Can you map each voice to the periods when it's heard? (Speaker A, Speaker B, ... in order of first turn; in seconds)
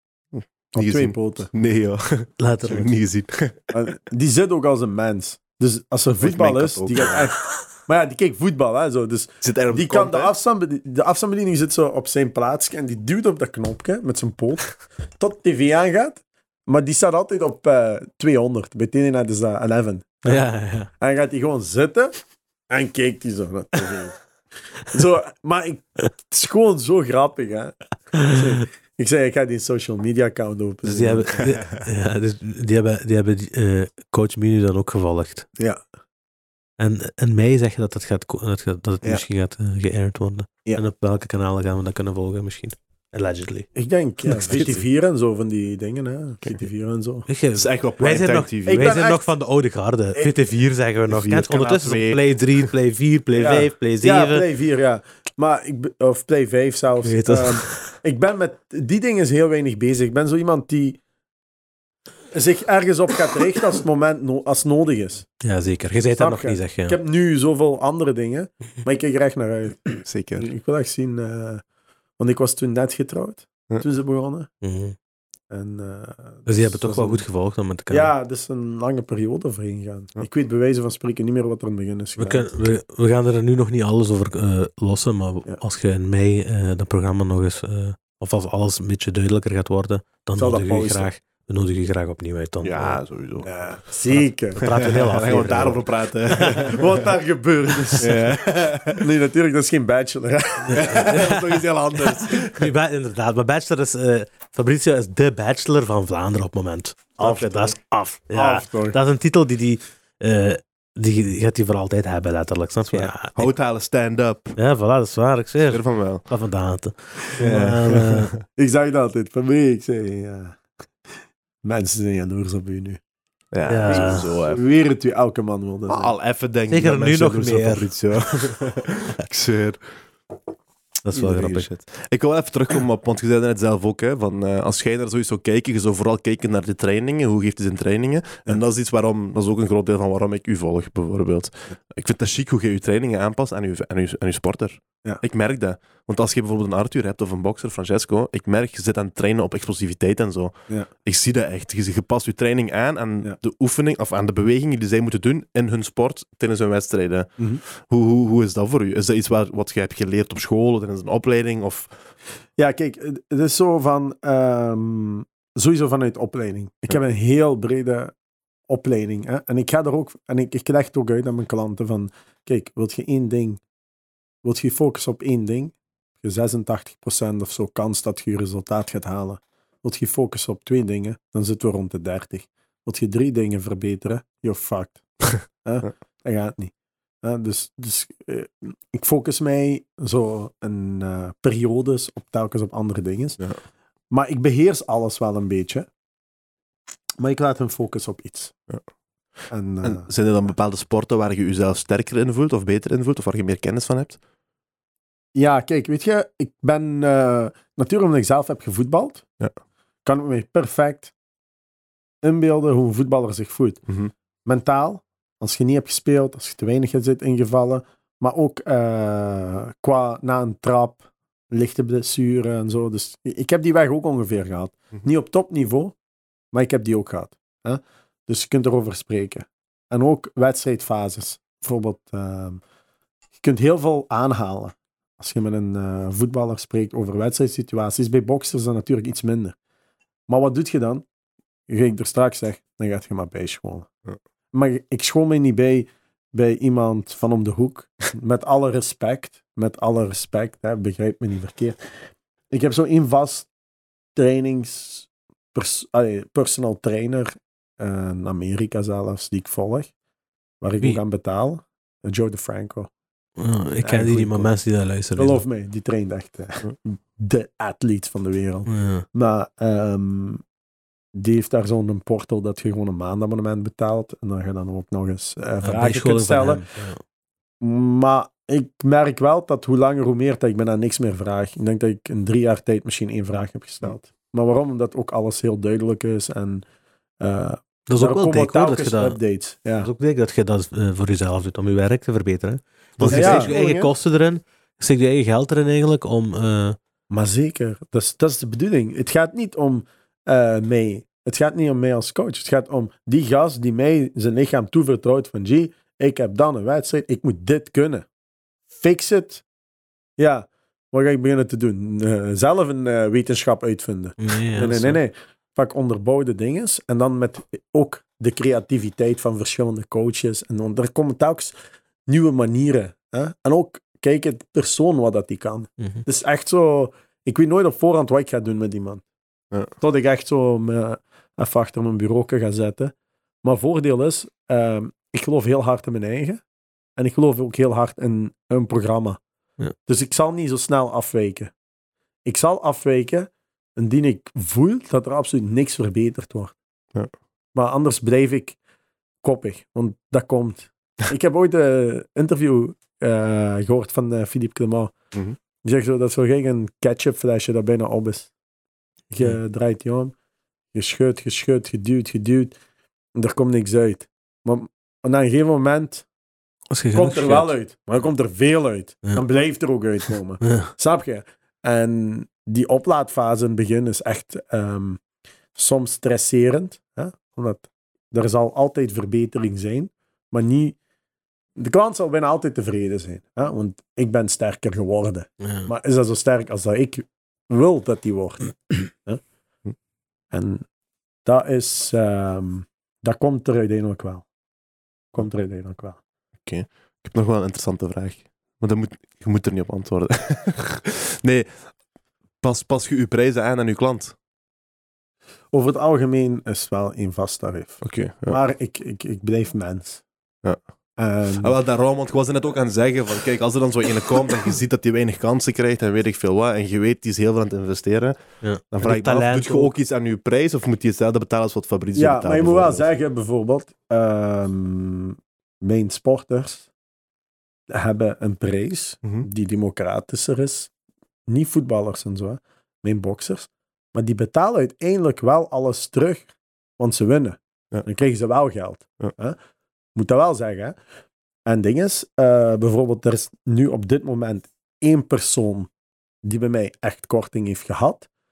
Speaker A: 0.4-3.7, 6.2-7.2, 9.4-10.3, 47.5-48.9, 51.1-52.7, 70.0-70.5, 92.6-97.1, 98.0-99.0, 100.7-102.7, 107.2-107.8, 112.9-114.6, 115.7-116.3, 117.4-118.4, 123.5-124.6, 125.9-130.0, 131.2-162.0, 199.8-204.2, 293.0-293.9, 396.4-401.7, 402.4-404.2, 407.8-408.4, 411.4-422.9
Speaker B: 0.8-1.5, 3.7-20.4, 21.0-22.1, 22.7-31.5, 43.8-47.3, 48.7-49.3, 53.4-61.0, 62.3-65.3, 66.2-71.6, 72.2-74.5, 75.5-77.2, 77.9-82.5, 90.4-91.1, 93.4-94.7, 96.3-98.3, 98.9-102.2, 108.3-109.0, 118.5-120.6, 121.6-123.0, 123.9-126.1, 157.4-157.6, 162.6-168.1, 168.7-173.6, 174.4-193.5, 194.1-195.9, 197.2-198.6, 199.5-200.1, 205.3-209.2, 210.1-211.1, 212.2-213.8, 214.5-225.9, 226.5-232.6, 233.4-239.6, 240.3-241.1, 241.7-243.9, 244.5-251.9, 252.5-253.5, 254.2-259.9, 260.6-262.9, 263.8-264.5, 265.2-270.4, 271.1-276.7, 277.6-286.6, 287.2-289.9, 293.1-293.5, 297.1-308.1, 308.8-309.4, 310.2-321.5, 322.1-329.0, 329.8-332.9, 333.4-336.4, 337.0-339.2, 339.9-341.5, 342.2-346.6, 347.6-348.6, 349.2-354.9, 355.6-358.3, 359.1-360.1, 360.7-362.6, 363.2-366.1, 366.9-375.0, 375.6-380.8, 381.6-389.2, 390.3-390.6, 391.2-394.2, 395.1-396.0, 405.5-410.0, 411.0-411.5, 422.0-426.7, 427.7-430.7, 431.3-439.4, 439.9-440.8, 441.4-445.7, 446.2-448.1
Speaker C: 2.4-2.9, 20.3-20.9, 30.8-35.5, 36.8-43.7, 44.3-44.8, 47.3-54.5, 57.0-58.0, 65.4-67.0, 74.6-75.0, 76.5-78.1, 82.2-93.0, 94.6-95.8, 100.7-101.1, 102.5-113.5, 114.6-118.3, 123.7-124.3, 126.7-128.6, 131.0-131.7, 263.4-265.4, 268.7-269.1, 275.6-277.0, 287.9-289.2, 289.8-296.8, 314.2-315.0, 366.7-367.5, 370.4-370.7, 385.4-385.7, 418.4-419.7